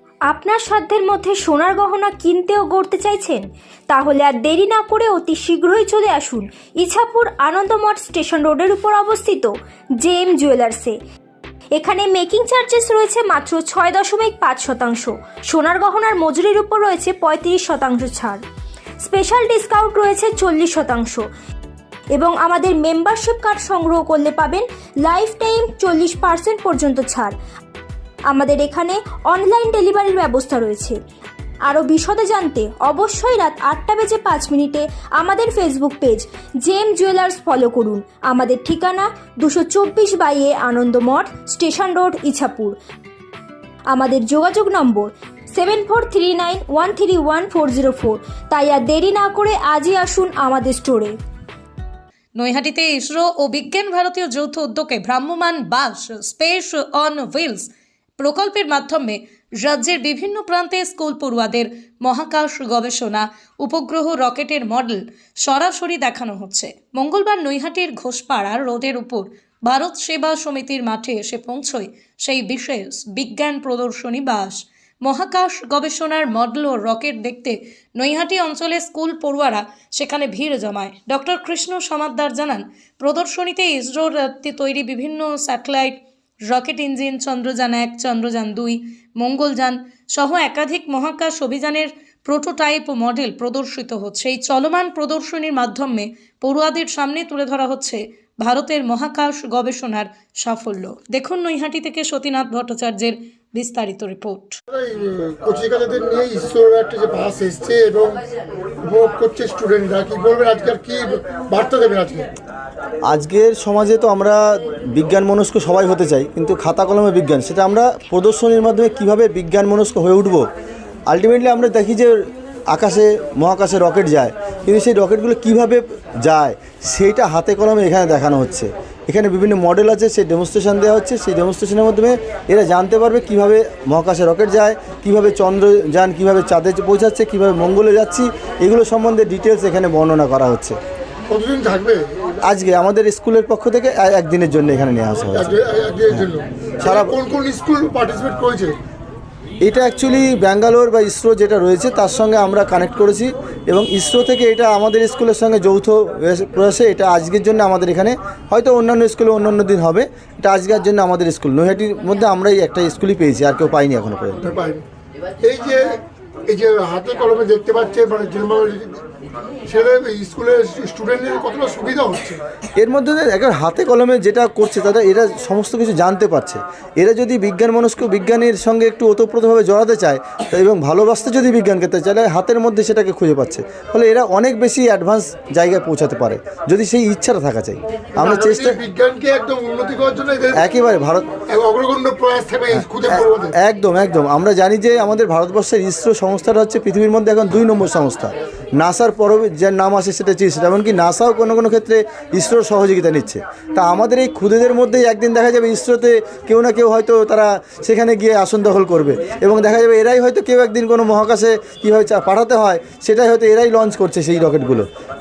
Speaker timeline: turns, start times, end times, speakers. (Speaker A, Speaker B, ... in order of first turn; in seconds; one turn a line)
Speaker A: 0.3-3.3
Speaker A: 3.9-9.5
Speaker A: 10.0-10.9
Speaker A: 11.8-18.4
Speaker A: 19.0-21.2
Speaker A: 22.1-27.3
Speaker A: 28.3-31.0
Speaker A: 31.7-42.8
Speaker A: 43.9-51.1
Speaker B: 52.4-104.6
Speaker C: 104.7-108.2
Speaker C: 108.8-112.3
Speaker D: 113.0-120.4
Speaker D: 121.1-122.2
Speaker D: 122.7-140.8
Speaker C: 141.3-142.2
Speaker D: 142.5-146.3
Speaker C: 145.3-148.8
Speaker D: 146.8-147.2
Speaker D: 149.6-164.4
Speaker C: 164.4-164.8
Speaker C: 165.4-169.0
Speaker C: 169.7-172.4
Speaker D: 172.8-188.8
Speaker C: 188.2-190.6
Speaker D: 190.5-191.4
Speaker C: 191.4-193.5
Speaker D: 192.7-214.8